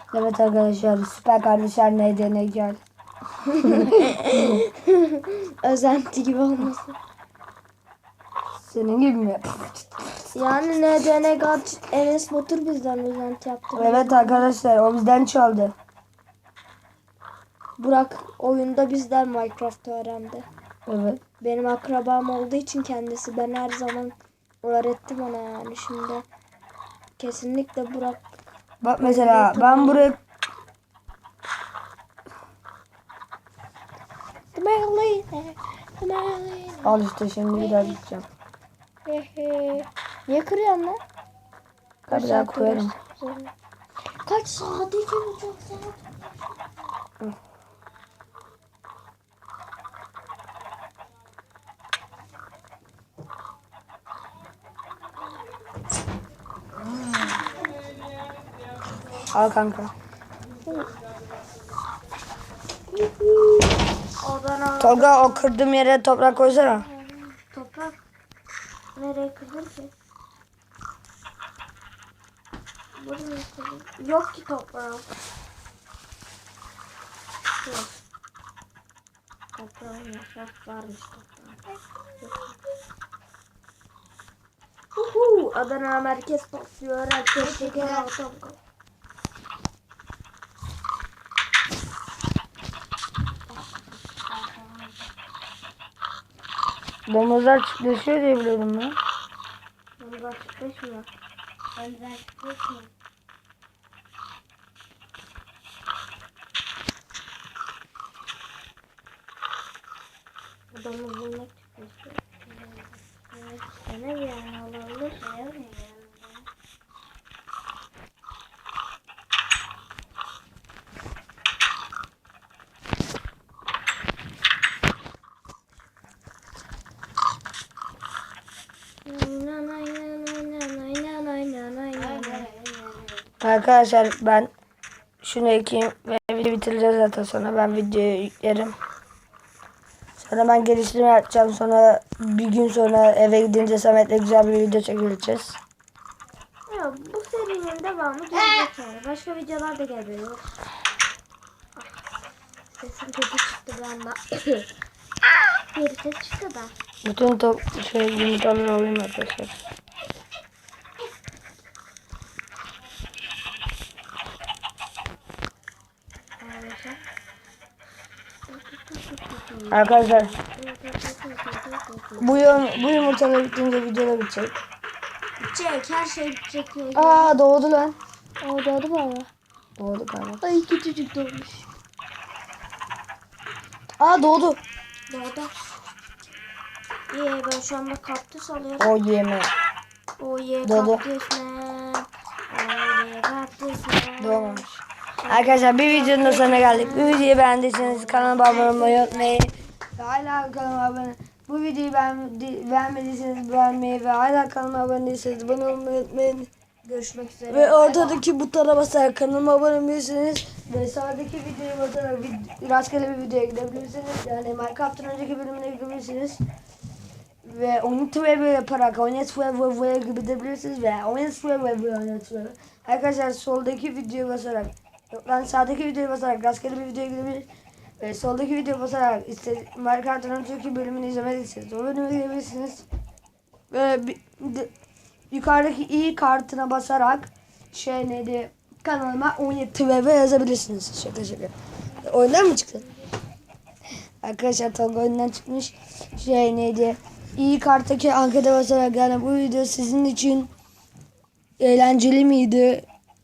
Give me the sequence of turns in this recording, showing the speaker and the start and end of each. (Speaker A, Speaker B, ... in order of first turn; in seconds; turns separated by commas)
Speaker A: 0.1-2.8, Speaker B: 3.5-7.0, Speaker A: 3.6-4.4, Speaker A: 8.6-10.3, Speaker B: 10.3-14.5, Speaker A: 13.7-15.7, Speaker B: 17.8-20.4, Speaker A: 20.9-21.2, Speaker B: 21.4-26.2, Speaker B: 27.2-28.3, Speaker A: 28.8-30.2, Speaker B: 29.0-30.1, Speaker B: 34.5-37.0, Speaker A: 36.8-38.2, Speaker B: 37.5-38.0, Speaker B: 39.0-41.0, Speaker B: 42.1-43.5, Speaker A: 42.1-42.9, Speaker B: 44.2-46.2, Speaker A: 59.3-59.9, Speaker B: 60.6-60.9, Speaker B: 62.9-65.5, Speaker A: 64.8-66.8, Speaker B: 66.6-68.0, Speaker B: 68.9-69.9, Speaker B: 73.0-75.1, Speaker B: 77.6-78.0, Speaker B: 79.5-82.5, Speaker B: 84.9-88.6, Speaker C: 87.4-88.0, Speaker C: 94.2-95.0, Speaker A: 97.1-99.0, Speaker B: 100.0-101.1, Speaker C: 101.7-102.9, Speaker B: 110.7-112.2, Speaker C: 112.4-113.4, Speaker B: 113.5-116.2, Speaker B: 129.0-132.5, Speaker C: 132.0-133.3, Speaker A: 133.4-134.5, Speaker A: 135.2-138.7, Speaker A: 140.2-145.6, Speaker B: 146.7-150.5, Speaker B: 151.8-152.0, Speaker B: 152.8-154.7, Speaker B: 155.5-156.7, Speaker A: 157.0-159.5, Speaker B: 166.4-167.0, Speaker B: 168.5-172.9, Speaker C: 169.6-169.9, Speaker A: 169.7-170.3, Speaker A: 172.2-174.5, Speaker B: 175.4-177.3, Speaker A: 176.9-177.9, Speaker B: 178.4-179.3, Speaker A: 179.8-180.4, Speaker B: 180.4-181.7, Speaker A: 184.0-184.6, Speaker B: 185.1-185.5, Speaker B: 187.1-188.9, Speaker A: 188.8-189.5, Speaker B: 190.2-194.7, Speaker A: 190.6-191.0, Speaker A: 194.2-194.7, Speaker B: 195.2-199.5, Speaker A: 195.3-206.5, Speaker B: 206.8-208.2, Speaker A: 207.5-216.4, Speaker A: 217.4-227.5, Speaker A: 228.0-232.8, Speaker A: 233.7-234.7, Speaker A: 235.3-242.9, Speaker A: 244.2-250.5, Speaker A: 251.6-252.8